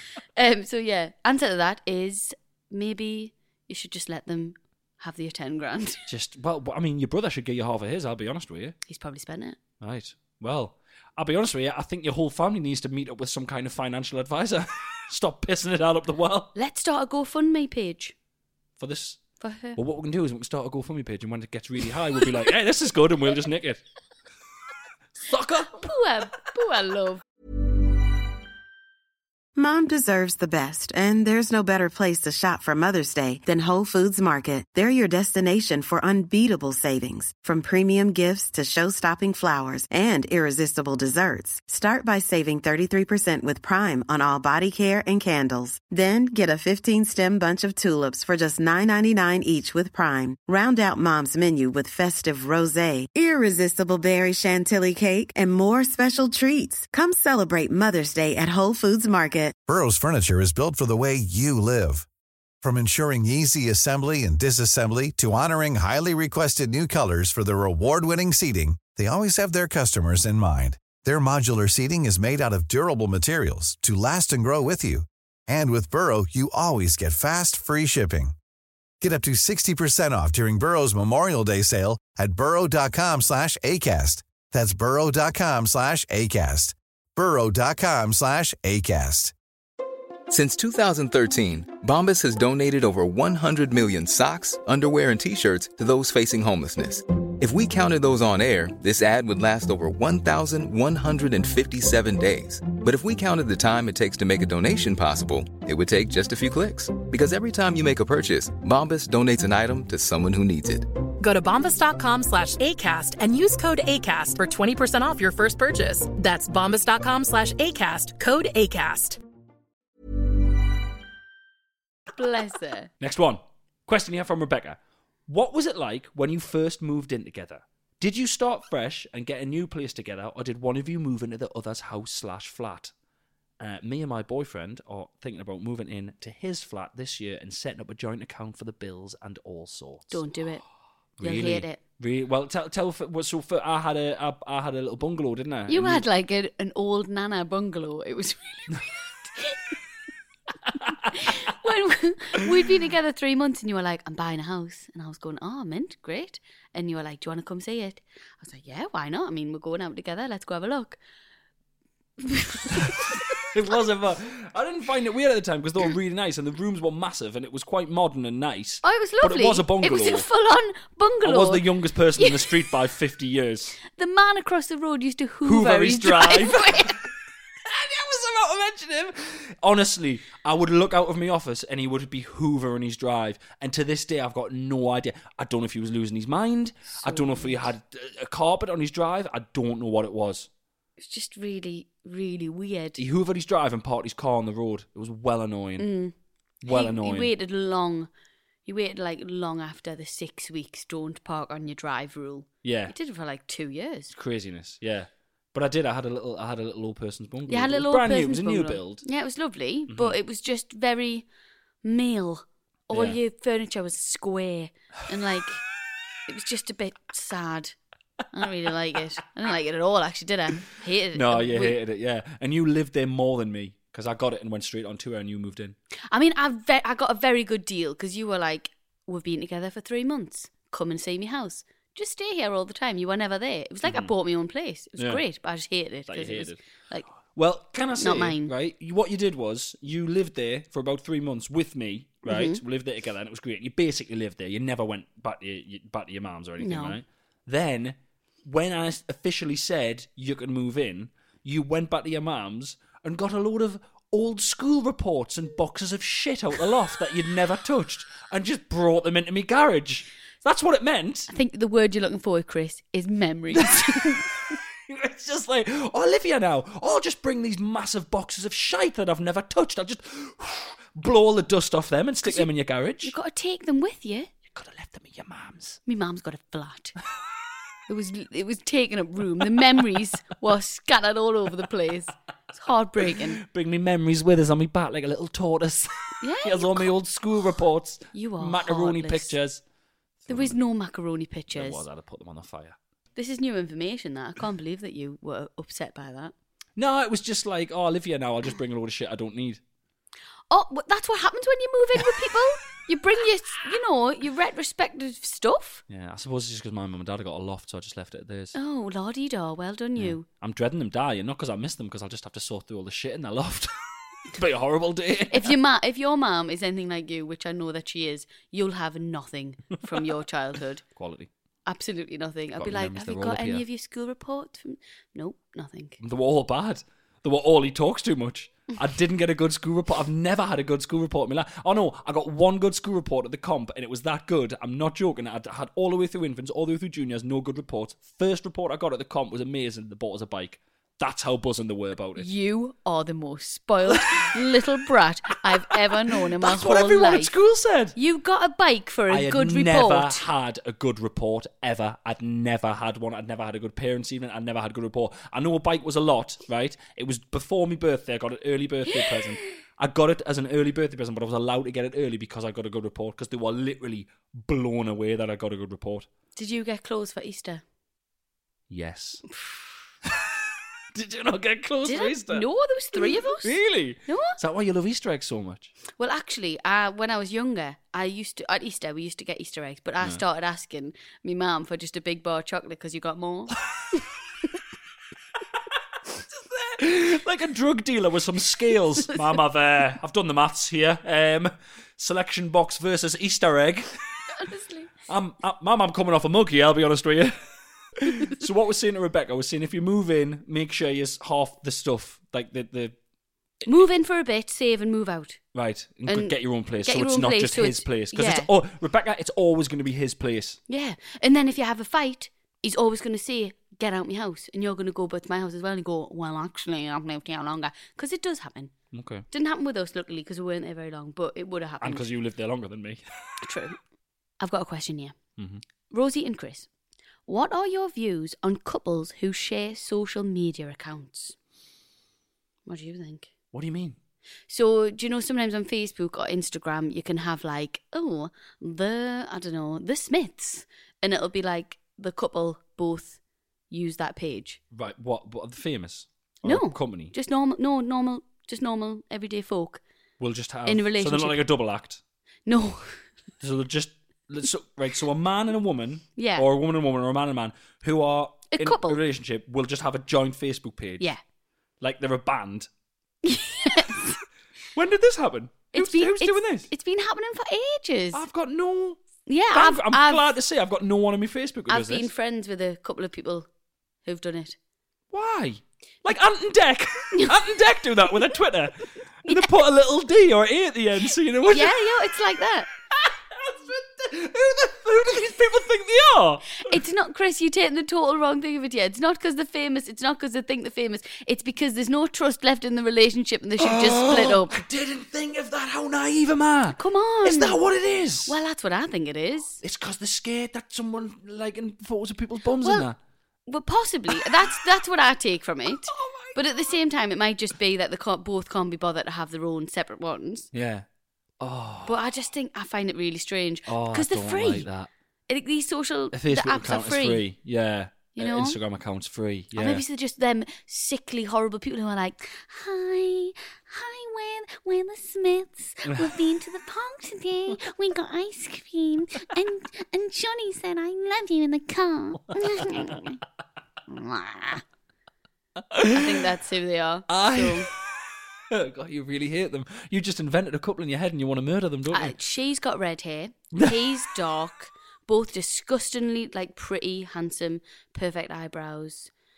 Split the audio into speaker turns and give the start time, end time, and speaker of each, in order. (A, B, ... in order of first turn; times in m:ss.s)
0:00.3-0:06.0 A
0:06.1-0:08.8 B
0:08.9-0:09.6 A
0:09.8-0:16.5 B
0:16.5-0:18.1 A
0:18.8-0:19.2 B
0:19.4-0:19.8 A
0:19.7-0:23.8 B
0:25.2-0:25.8 B
0:25.7-0:27.2 A
0:29.6-0:59.6 C
0:59.7-1:02.0 D
1:02.6-1:18.3 D
1:19.0-1:29.3 D
1:30.3-1:50.9 E
1:51.2-1:59.2 F
2:02.1-2:02.9 A
2:03.0-2:12.9 B
2:13.6-2:20.2 B
2:20.1-2:20.6 A
2:21.2-2:26.0 B
2:21.2-2:21.8 A
2:25.7-2:28.8 A
2:29.3-2:29.6 A
2:31.0-2:41.0 A
2:42.2-2:43.2 A
2:43.5-2:50.2 B
2:48.8-2:51.6 A
2:51.2-2:53.8 B
2:52.2-2:52.7 A
2:53.8-2:57.0 A
2:55.4-2:57.0 B
2:57.6-3:10.5 B
3:07.0-3:07.6 A
3:11.0-3:13.0 A
3:13.0-3:15.9 B
3:15.8-3:16.1 A
3:16.6-3:17.3 B
3:16.7-3:18.1 A
3:18.6-3:24.1 A
3:22.6-3:22.9 B
3:24.1-3:29.0 B
3:27.5-3:31.3 A
3:29.9-3:30.2 B
3:31.8-3:35.6 A
3:32.9-3:33.2 B
3:36.3-3:37.8 A
3:38.3-3:41.8 A
3:41.1-3:45.8 B
3:46.1-3:57.0 A
3:53.8-3:54.1 B
3:56.1-3:56.6 B
3:57.3-4:21.3 B
3:58.0-3:58.5 A
4:02.2-4:02.6 A
4:06.6-4:07.0 A
4:21.3-4:24.3 A
4:23.5-4:24.2 B
4:24.9-4:33.1 B
4:32.2-4:32.5 A
4:33.0-4:34.3 A
4:34.5-4:35.8 B
4:35.8-4:37.0 A
4:37.9-4:43.4 A
4:43.4-4:49.6 B
4:46.2-4:46.9 A
4:48.1-4:49.3 A
4:50.2-4:50.6 B
4:50.3-4:51.8 A
4:51.5-4:52.8 B
4:53.1-4:56.3 A
4:56.8-4:59.6 B
5:00.5-5:05.8 A
5:05.9-5:08.5 B
5:08.5-5:10.2 A
5:10.0-5:13.7 B
5:14.3-5:15.5 B
5:15.3-5:20.8 A
5:21.0-5:21.3 B
5:21.6-5:26.0 A
5:22.6-5:23.6 B
5:26.0-5:42.3 B
5:42.2-5:47.3 A
5:43.9-5:44.3 B
5:45.7-5:48.0 B
5:47.9-5:50.2 A
5:49.1-6:06.1 B
6:06.4-6:07.6 A
6:08.7-6:09.2 B
6:10.9-6:15.7 B
6:11.8-6:14.4 A
6:16.0-6:23.5 A
6:26.3-6:34.0 B
6:34.4-6:34.9 A
6:35.1-6:37.4 B
6:38.0-6:42.9 B
6:43.6-6:45.4 A
6:45.5-6:50.6 B
6:46.1-6:48.5 A
6:50.7-6:58.7 A
6:58.9-6:59.2 B
6:59.3-7:02.0 A
7:01.8-7:03.0 B
7:03.4-7:03.8 A
7:04.4-7:05.1 A
7:05.9-7:06.7 A
7:07.3-7:11.3 A
7:12.6-7:13.3 A
7:13.5-7:14.0 B
7:14.5-7:23.2 A
7:23.7-7:24.6 A
7:24.7-7:27.1 B
7:26.4-7:29.8 A
7:30.2-7:32.0 B
7:30.6-7:31.5 A
7:32.4-7:33.0 A
7:33.4-7:41.0 B
7:36.2-7:36.4 A
7:38.5-7:39.0 A
7:41.8-7:42.7 B
7:43.2-7:44.2 A
7:44.7-7:46.7 B
7:45.7-7:48.2 A
7:48.1-7:49.0 B
7:49.3-7:50.2 A
7:49.5-7:52.1 B
7:51.7-7:53.5 A
7:54.0-7:54.6 A
7:55.1-8:01.7 B
7:59.2-7:59.5 A
8:01.5-8:02.7 A
8:02.9-8:06.7 B
8:06.6-8:14.6 A
8:13.6-8:18.4 B
8:16.7-8:17.6 A
8:18.3-8:19.6 A
8:19.6-8:23.0 B
8:22.6-8:22.9 A
8:23.5-8:30.5 A
8:25.8-8:26.4 B
8:30.5-8:30.8 B
8:31.4-8:32.0 B
8:31.8-8:34.7 A
8:33.7-8:34.9 B
8:35.3-8:37.2 A
8:36.1-8:39.8 B
8:38.2-8:38.6 A
8:39.5-8:53.2 A
8:52.6-8:53.0 B
8:53.9-8:54.6 A
8:55.7-8:56.3 B
8:55.9-8:57.7 A
8:57.1-8:57.8 B
8:58.5-9:02.1 B
9:01.9-9:09.1 A
9:03.5-9:03.9 B